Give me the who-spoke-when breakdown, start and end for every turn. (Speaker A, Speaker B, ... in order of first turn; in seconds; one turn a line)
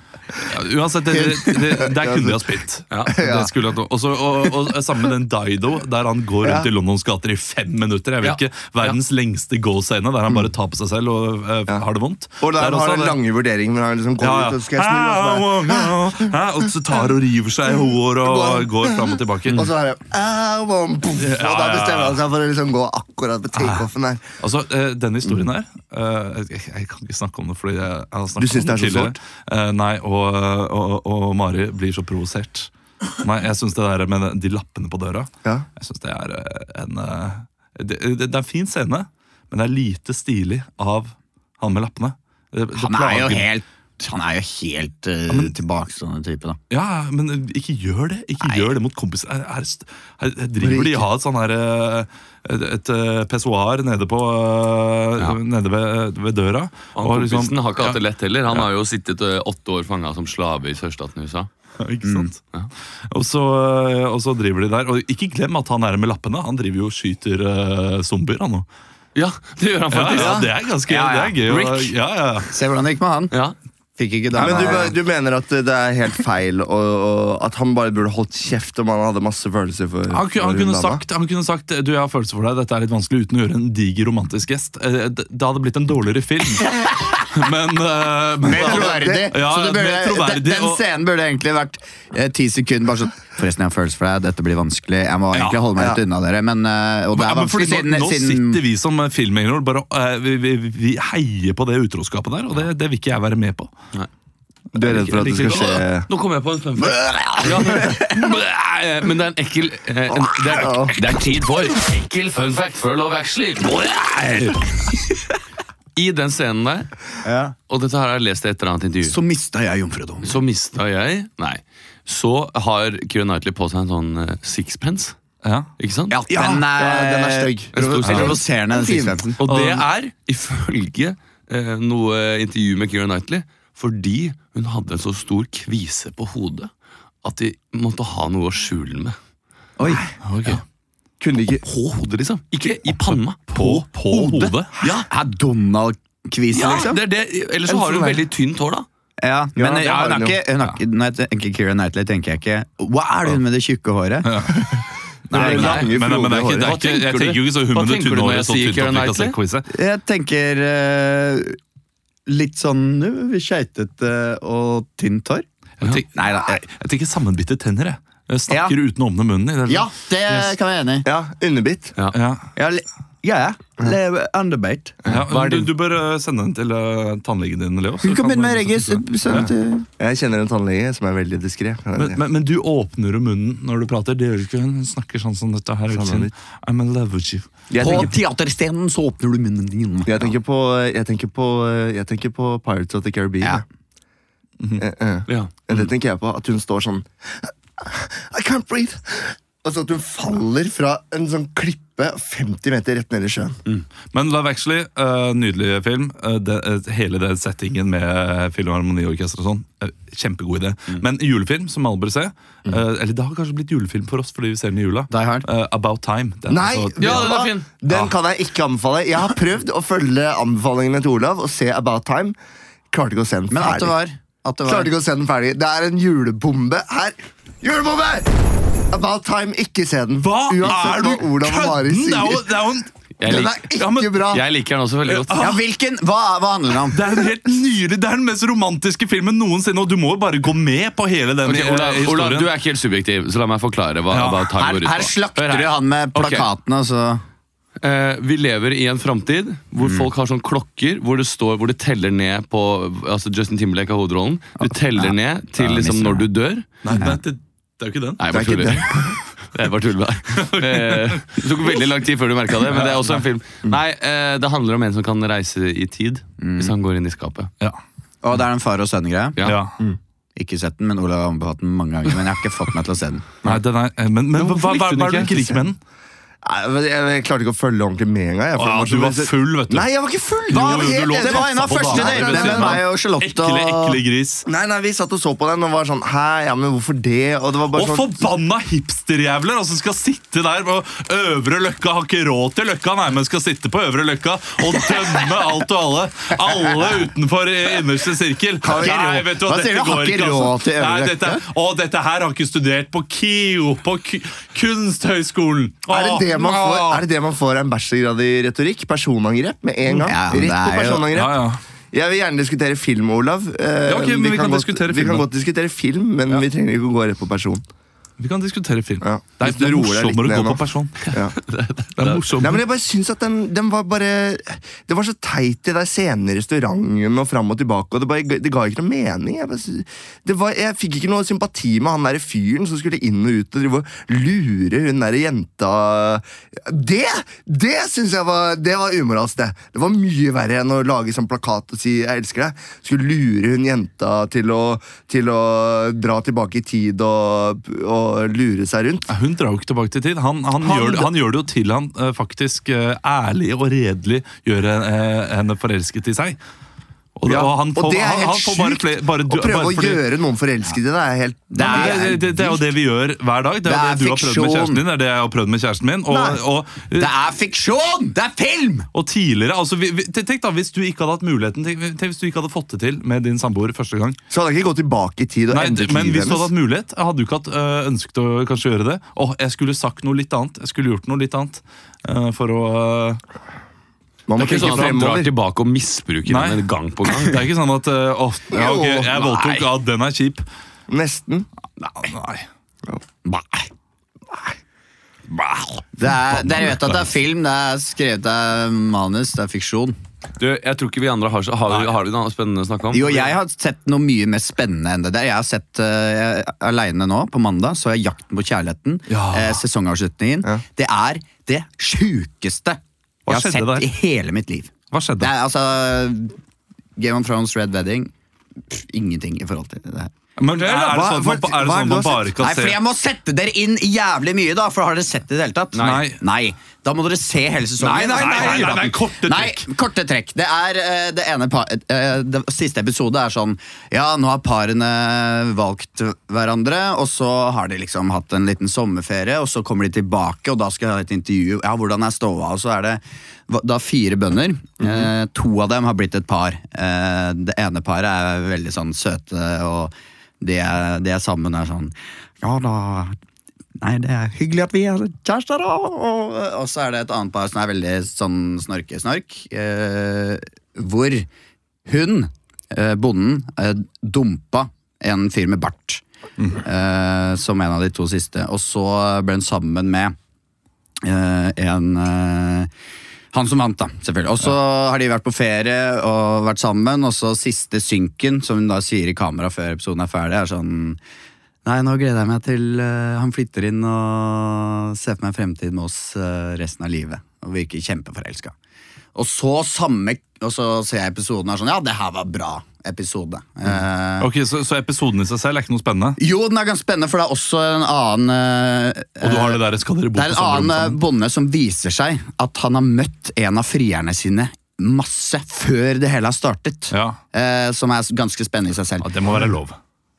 Speaker A: 0.4-13.2
Speaker B: 1.1-2.5
Speaker C: 2.9-3.2
Speaker B: 3.2-3.5
Speaker B: 6.4-6.7
Speaker C: 8.2-9.0
Speaker B: 12.4-16.3
Speaker A: 14.2-19.7
Speaker B: 18.2-24.2
Speaker A: 21.2-22.2
Speaker A: 23.6-23.9
Speaker A: 24.4-43.5
Speaker B: 28.4-29.2
Speaker D: 42.8-46.6
Speaker A: 45.3-45.5
Speaker A: 46.7-58.0
Speaker D: 48.4-48.7
Speaker B: 50.6-51.1
Speaker C: 57.0-61.5
Speaker A: 61.8-62.4
Speaker D: 62.0-62.3
Speaker A: 63.1-68.7
Speaker C: 69.2-72.0
Speaker A: 69.9-72.5
Speaker D: 70.9-71.4
Speaker D: 72.5-73.3
Speaker C: 73.3-73.6
Speaker D: 74.0-75.0
Speaker B: 74.3-81.0
Speaker A: 80.1-90.8
Speaker D: 86.8-87.2
Speaker D: 88.4-98.6
Speaker B: 88.6-89.2
Speaker A: 95.3-95.7
Speaker A: 97.1-103.7
Speaker B: 104.7-106.1
Speaker A: 104.8-105.8
Speaker C: 105.2-114.6
Speaker D: 107.0-108.0
Speaker B: 110.2-111.0
Speaker C: 116.0-116.9
Speaker D: 117.2-117.5
Speaker C: 117.7-119.2
Speaker D: 119.0-120.4
Speaker C: 120.2-125.2
Speaker A: 125.4-125.7
Speaker C: 125.8-126.2
Speaker D: 126.1-129.4
Speaker B: 126.3-129.3
Speaker C: 127.7-128.4
Speaker C: 129.4-136.7
Speaker A: 129.4-129.9
Speaker C: 137.2-139.2
Speaker D: 139.8-140.0
Speaker A: 140.2-140.6
Speaker B: 141.2-141.6
Speaker C: 141.6-145.1
Speaker A: 143.5-144.7
Speaker D: 145.1-147.0
Speaker C: 146.5-148.9
Speaker B: 146.6-147.0
Speaker B: 147.7-148.2
Speaker D: 149.2-154.5
Speaker B: 149.6-150.4
Speaker A: 154.2-154.8
Speaker B: 155.3-156.8
Speaker A: 155.3-159.7
Speaker C: 155.3-156.0
Speaker C: 156.5-159.4
Speaker D: 159.7-161.6
Speaker D: 162.3-165.4
Speaker A: 165.8-170.6
Speaker D: 166.1-166.6
Speaker D: 168.5-168.8
Speaker D: 169.7-171.1
Speaker B: 171.1-171.9
Speaker A: 172.1-172.4
Speaker D: 172.6-175.0
Speaker A: 175.1-179.5
Speaker C: 175.3-175.7
Speaker D: 178.0-179.9
Speaker B: 180.0-182.2
Speaker A: 182.0-188.1
Speaker B: 185.9-186.3
Speaker B: 187.7-188.1
Speaker D: 187.8-190.3
Speaker B: 190.1-193.6
Speaker B: 194.8-203.6
Speaker C: 195.3-195.5
Speaker A: 204.1-218.1
Speaker D: 215.1-215.5
Speaker B: 216.5-222.3
Speaker C: 217.0-217.7
Speaker B: 222.9-224.0
Speaker D: 223.5-224.9
Speaker B: 224.7-228.3
Speaker B: 228.9-232.5
Speaker A: 230.2-234.3
Speaker C: 233.2-235.5
Speaker B: 233.2-234.4
Speaker A: 235.1-235.6
Speaker D: 235.3-237.0
Speaker A: 236.9-242.5
Speaker C: 241.4-246.5
Speaker A: 244.1-244.5
Speaker D: 244.6-247.2
Speaker C: 247.8-256.8
Speaker D: 255.0-256.2
Speaker A: 256.8-259.0
Speaker C: 258.2-267.5
Speaker B: 258.3-259.1
Speaker A: 260.4-261.8
Speaker A: 262.7-263.2
Speaker D: 266.4-266.7
Speaker D: 268.2-269.4
Speaker A: 269.4-269.7
Speaker D: 270.4-273.6
Speaker A: 273.4-275.8
Speaker C: 274.3-275.5
Speaker B: 276.4-282.8
Speaker A: 278.6-279.9
Speaker A: 280.5-284.5
Speaker D: 280.5-284.0
Speaker B: 284.5-288.2
Speaker A: 287.7-307.0
Speaker D: 298.6-301.4
Speaker B: 305.9-317.6
Speaker D: 310.0-311.1
Speaker A: 311.1-311.6
Speaker A: 313.9-315.3
Speaker A: 318.2-321.2
Speaker B: 319.0-321.4
Speaker C: 321.4-322.2
Speaker A: 322.0-322.6
Speaker B: 322.3-349.1
Speaker A: 349.1-356.4
Speaker B: 350.6-351.1
Speaker A: 357.2-360.0
Speaker B: 357.3-362.7
Speaker D: 361.5-362.2
Speaker A: 361.6-367.1
Speaker D: 363.6-364.8
Speaker B: 366.1-366.4
Speaker D: 367.0-368.9
Speaker A: 368.9-374.2
Speaker B: 374.3-376.5
Speaker A: 375.5-383.2
Speaker B: 384.3-385.3
Speaker C: 384.4-387.5
Speaker A: 384.4-385.0
Speaker A: 386.3-390.4
Speaker B: 388.5-389.2
Speaker B: 390.9-391.5
Speaker A: 392.0-392.4
Speaker D: 393.2-393.7
Speaker D: 396.0-400.0
Speaker A: 396.3-397.0
Speaker C: 400.4-403.3
Speaker D: 402.9-416.4
Speaker A: 409.1-409.6
Speaker A: 413.3-413.9
Speaker A: 414.9-415.3
Speaker D: 417.0-418.1
Speaker D: 418.7-420.1
Speaker A: 420.4-422.8
Speaker B: 420.5-422.3
Speaker D: 422.4-453.1
Speaker C: 425.7-426.1
Speaker A: 425.8-426.2
Speaker A: 427.8-429.7
Speaker C: 427.9-428.8
Speaker D: 453.8-461.3
Speaker D: 461.9-466.0
Speaker D: 466.6-470.1
Speaker D: 471.0-472.7
Speaker D: 473.3-481.0
Speaker D: 481.6-488.5
Speaker D: 489.1-494.3
Speaker A: 494.2-496.2
Speaker D: 496.2-509.1
Speaker A: 499.2-501.0
Speaker A: 506.9-507.2
Speaker A: 509.0-509.8